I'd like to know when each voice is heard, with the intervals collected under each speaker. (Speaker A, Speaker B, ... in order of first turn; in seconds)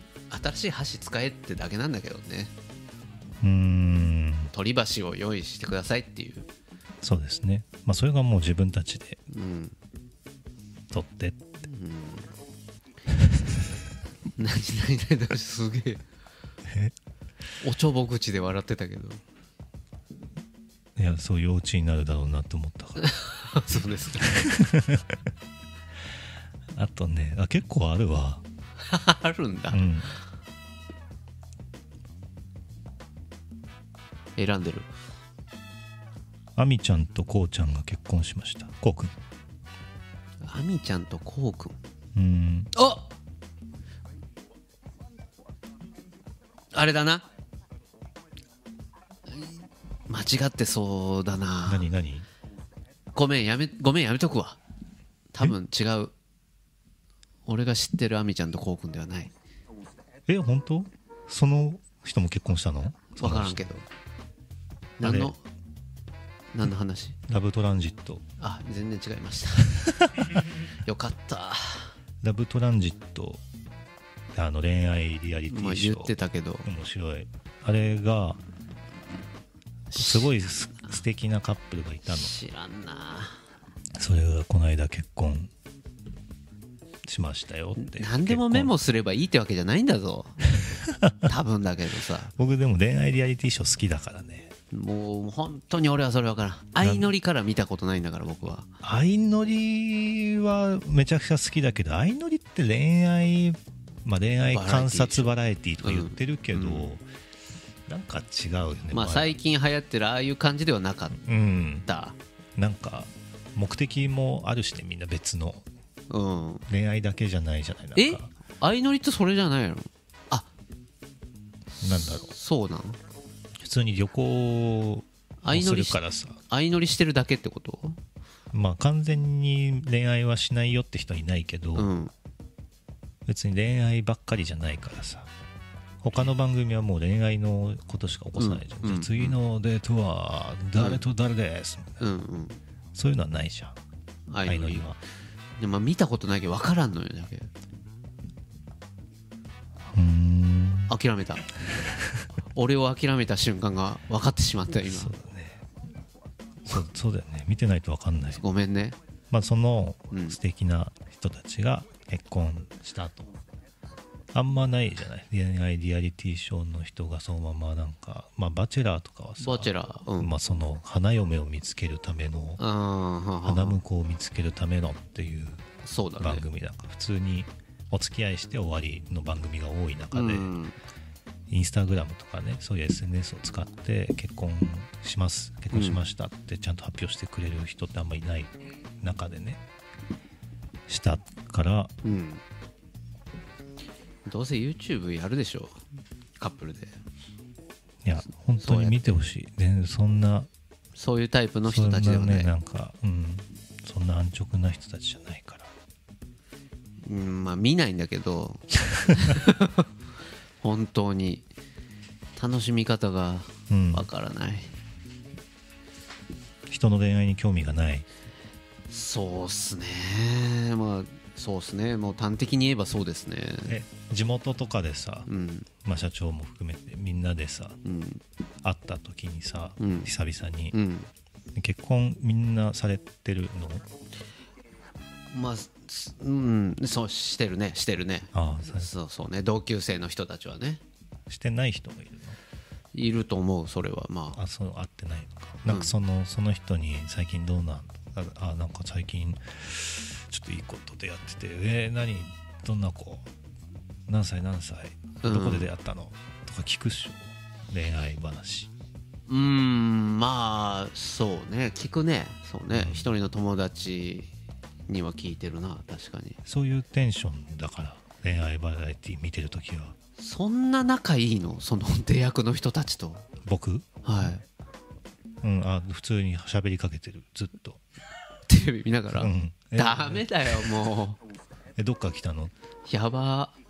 Speaker A: 0.3-2.5, 4.5-6.5, 9.3-9.8, 11.6-12.3, 14.4-16.0, 17.6-19.2, 23.0-24.5, 28.8-29.8, 34.4-34.9, 40.4-41.8, 42.7-43.1, 46.7-47.2, 49.3-51.9, 53.1-54.6, 55.3-56.1, 57.5-59.3, 63.1-63.9, 65.0-65.4, 66.5-67.2, 68.4-69.8, 70.7-71.9, 75.5-76.7, 79.9-80.4, 82.1-83.4, 87.8-90.5, 91.2-92.3, 94.7-98.7, 104.5-105.3, 105.8-106.9, 108.9-111.2, 111.8-112.2, 116.1-116.7, 117.9-120.5, 121.8-123.0, 125.4-128.0, 131.8-132.1, 138.4-139.3, 140.8-141.0, 142.0-142.6, 144.3-144.9, 145.6-147.5, 150.9-151.5, 152.5-155.1, 158.3-159.0, 160.1-160.4, 169.4-170.3, 172.6-173.8, 175.8-176.4, 180.1-180.8, 185.7-186.0, 192.0-192.4, 194.2-195.8, 196.4-196.9, 198.6-199.2, 200.9-202.5, 207.0-209.9, 210.6-211.5, 212.3-214.7, 218.9-223.8, 225.3-225.7, 227.8-228.2, 229.8-230.1, 230.7-231.1, 235.3-240.8, 242.9-244.4, 245.7-245.9, 255.2-255.7, 259.3-264.3, 264.9-266.4, 270.2-273.3, 274.0-274.4, 278.5-281.2, 282.9-283.6
Speaker B: 3.4-4.5, 7.0-9.2, 10.9-11.5, 16.7-16.9, 20.9-23.1, 24.3-25.2, 26.7-28.4, 29.7-30.2, 36.5-39.1, 42.1-42.7, 51.6-52.3, 60.3-63.6, 65.0-65.3, 67.3-68.2, 69.8-70.3, 72.2-73.4, 74.3-78.4, 79.9-82.3, 84.0-85.5, 87.0-88.7, 90.8-91.2, 92.3-94.5, 96.8-97.1, 98.8-107.0, 107.9-109.4, 111.2-111.9, 112.6-115.6, 116.7-118.3, 121.8-122.3, 123.6-126.4, 128.5-131.9, 133.3-135.3, 136.0-142.0, 142.9-143.8, 144.4-145.0, 149.9-150.9, 151.9-152.2, 154.8-155.6, 156.6-158.4, 159.3-163.3, 164.3-172.6, 173.4-175.7, 176.2-180.5, 181.5-189.6, 190.9-191.9, 198.0-200.5, 201.6-205.7, 213.7-214.1, 216.7-218.1, 223.7-225.3, 225.8-227.8, 228.6-230.8, 231.5-233.8, 238.3-238.9, 241.3-242.4, 244.3-253.3, 254.1-258.7, 262.7-263.1, 266.4-269.9, 273.4-273.9, 275.4-277.8, 279.1-280.7, 281.8-282.5